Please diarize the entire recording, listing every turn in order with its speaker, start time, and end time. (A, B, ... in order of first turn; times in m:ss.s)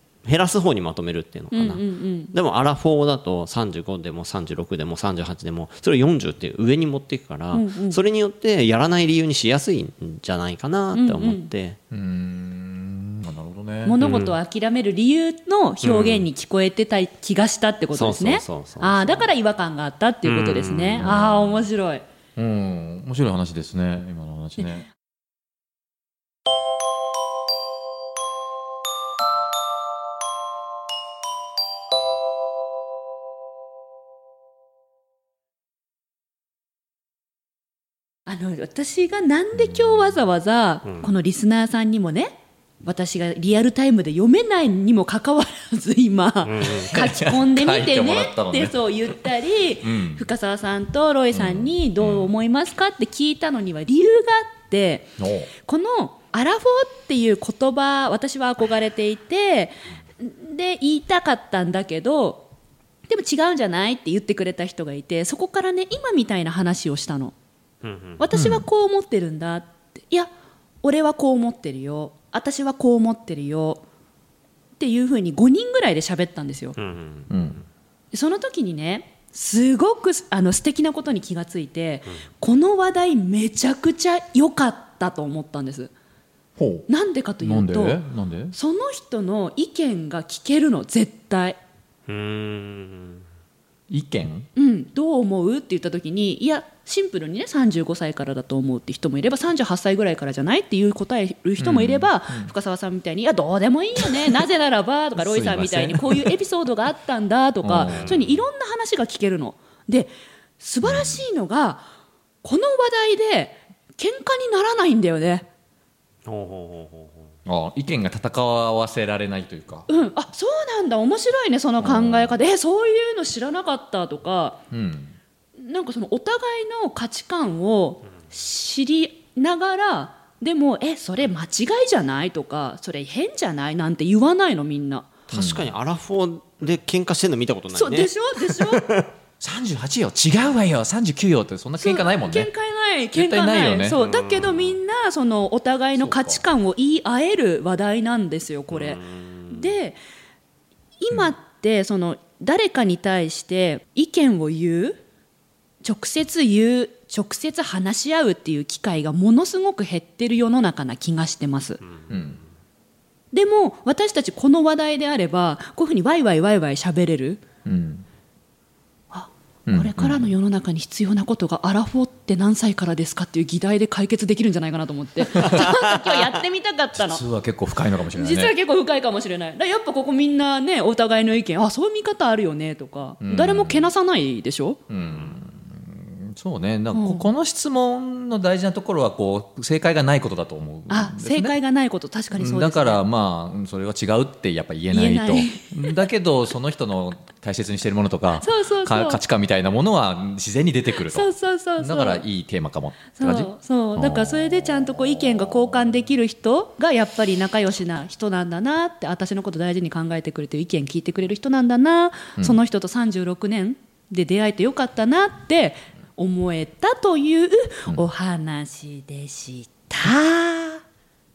0:00.2-0:11.8 A
0:01.5-0:02.3 B
0:07.5-0:08.0 B
0:10.9-0:11.5 B
0:11.9-0:14.0 C
0:13.8-0:22.0 B
0:14.0-0:14.4 A
0:15.8-0:16.3 A
0:17.9-0:19.3 A
0:20.2-0:21.1 A
0:21.0-0:21.7 C
0:22.4-0:24.9 C
0:38.3-0:55.1 B
0:46.4-0:47.0 A
0:46.9-0:48.8 C
0:49.8-0:50.3 C
0:51.3-0:52.3 C
0:55.2-0:55.5 C
0:55.6-1:02.5 B
1:03.1-1:07.4 B
1:07.8-1:08.2 A
1:08.2-1:10.3 B
1:08.3-1:08.7 C
1:10.8-1:13.8 B
1:14.8-1:16.8 B
1:16.8-1:17.4 A
1:17.3-1:17.6 C
1:18.1-1:25.9 B
1:26.6-1:26.9 C
1:26.9-1:28.0 B
1:27.4-1:28.6 C
1:28.5-1:31.6 B
1:32.1-1:33.2 A
1:33.9-1:34.5 C
1:34.6-1:51.9 B
1:41.6-1:42.5 C
1:44.0-1:44.4 C
1:45.2-1:46.4 C
1:47.6-1:48.2 C
1:47.8-1:48.4 A
1:50.8-1:51.2 C
1:52.4-1:55.5 B
1:56.3-1:57.3 A
1:57.5-1:59.9 C
1:59.9-2:04.6 B
2:01.8-2:02.4 C
2:04.7-2:05.2 C
2:05.6-2:15.1 B
2:15.3-2:15.7 C
2:15.3-2:19.1 A
2:17.7-2:18.9 B
2:19.4-2:22.5 C
2:21.8-2:30.0 B
2:23.1-2:24.0 C
2:24.0-2:24.8 A
2:26.0-2:26.4 C
2:28.7-2:29.7 A
2:31.0-2:35.0 B
2:35.8-2:41.8 B
2:42.1-2:42.4 C
2:43.3-2:47.4 B
2:47.6-2:48.1 C
2:49.1-2:57.2 B
2:49.7-2:50.3 C
2:55.4-2:55.6 C
2:56.9-2:58.6 C
2:58.2-3:04.8 B
3:03.2-3:03.9 C
3:04.9-3:11.6 C
3:06.9-3:07.2 B
3:10.9-3:13.0 B
3:12.3-3:24.8 C
3:14.9-3:16.0 B
3:18.4-3:19.2 B
3:21.0-3:22.2 B
3:23.2-3:40.8 B